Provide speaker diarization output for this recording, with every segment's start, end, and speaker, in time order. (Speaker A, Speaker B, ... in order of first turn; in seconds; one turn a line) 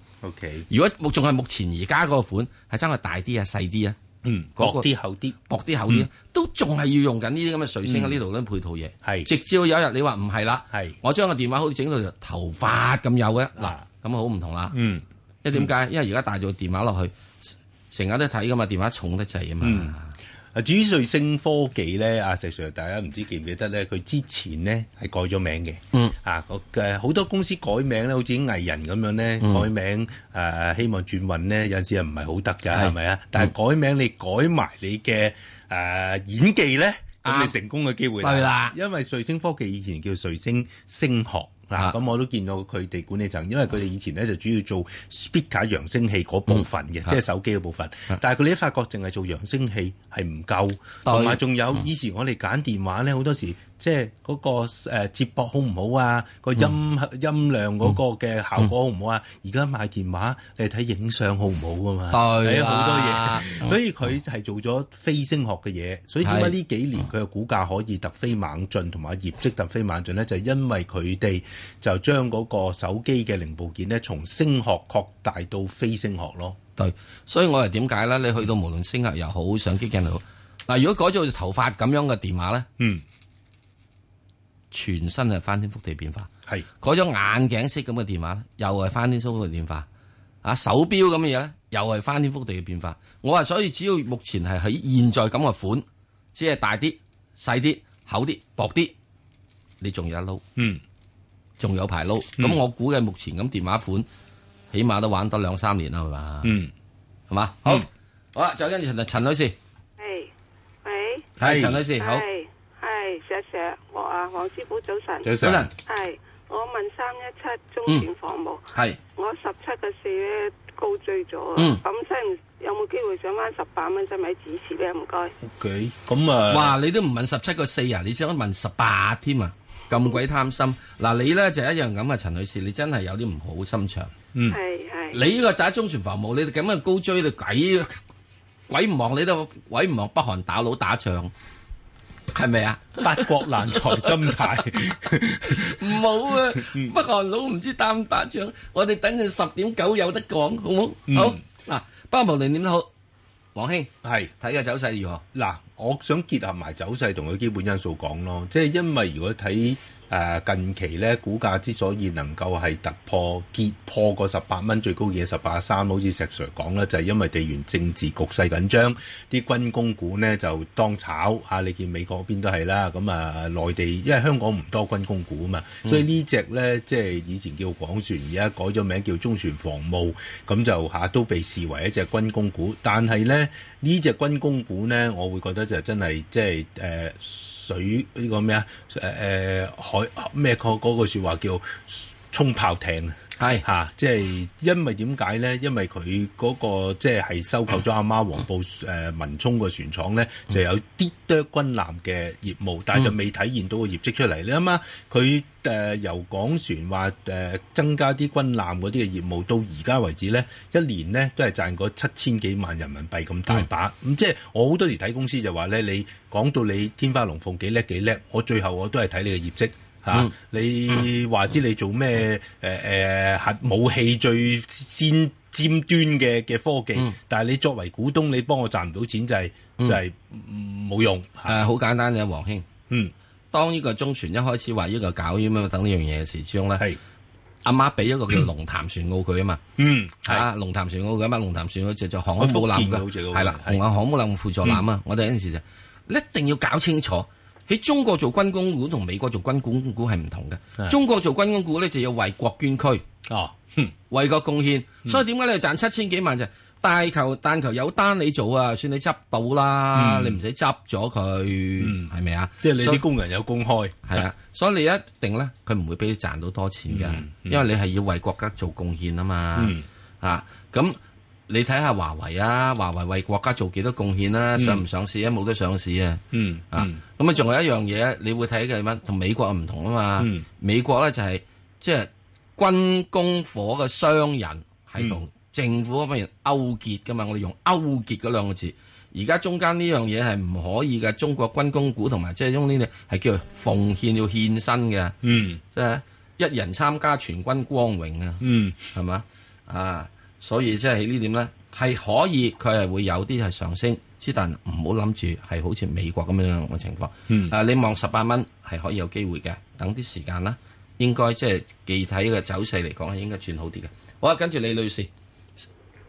Speaker A: 0.2-0.7
Speaker B: 0.7-4.0
Speaker A: 4.2-6.1
Speaker B: 4.6-4.9
Speaker B: 5.5-14.7
Speaker A: 7.8-8.2
Speaker A: 9.0-9.3
Speaker A: 10.7-11.0
Speaker A: 13.6-13.8
Speaker A: 14.7-15.7
Speaker B: 15.4-17.1
Speaker B: 17.9-20.1
Speaker A: 19.6-19.9
Speaker A: 20.5-76.6
Speaker B: 29.4-29.7
Speaker B: 37.2-37.5
Speaker B: 38.2-38.7
Speaker B: 46.5-47.2
Speaker B: 51.0-51.4
Speaker B: 62.1-63.7
Speaker B: 66.2-66.5
Speaker B: 76.8-82.7
Speaker B: 84.7-86.3
Speaker B: 86.8-89.9
Speaker B: 90.4-98.9
Speaker B: 99.8-100.4
Speaker A: 100.5-100.8
Speaker B: 101.6-104.0
Speaker B: 104.7-106.5
Speaker A: 106.4-106.7
Speaker B: 107.3-109.5
Speaker C: 110.0-110.3
Speaker C: 110.8-111.3
Speaker B: 111.4-112.2
Speaker A: 111.4-111.8
Speaker C: 111.9-125.3
Speaker A: 115.2-115.7
Speaker B: 115.4-115.7
Speaker B: 118.7-119.0
Speaker B: 121.5-121.8
Speaker A: 125.4-126.8
Speaker B: 126.5-134.1
Speaker C: 134.5-135.2
Speaker B: 135.1-138.0
Speaker B: 138.7-141.3
Speaker B: 142.3-144.4
Speaker A: 143.0-146.9
Speaker B: 145.4-152.9
Speaker A: 151.1-151.4
Speaker B: 153.5-155.2
Speaker A: 154.0-154.3
Speaker A: 155.3-231.6
Speaker B: 193.4-193.6
Speaker B: 231.4-232.7
Speaker B: 233.5-236.8
Speaker B: 237.6-239.6
Speaker A: 239.8-240.5
Speaker B: 240.2-253.0
Speaker A: 242.4-243.8
Speaker A: 253.3-253.9
Speaker B: 254.1-263.0
Speaker A: 259.9-260.4
Speaker A: 261.8-264.2
Speaker B: 264.1-295.1
Speaker A: 266.9-267.6
Speaker A: 269.6-269.8
Speaker A: 274.6-274.8
Speaker A: 276.3-277.0
Speaker A: 280.2-280.4
Speaker A: 295.2-295.6
Speaker B: 295.7-315.1
Speaker A: 298.4-298.8
Speaker A: 307.3-307.5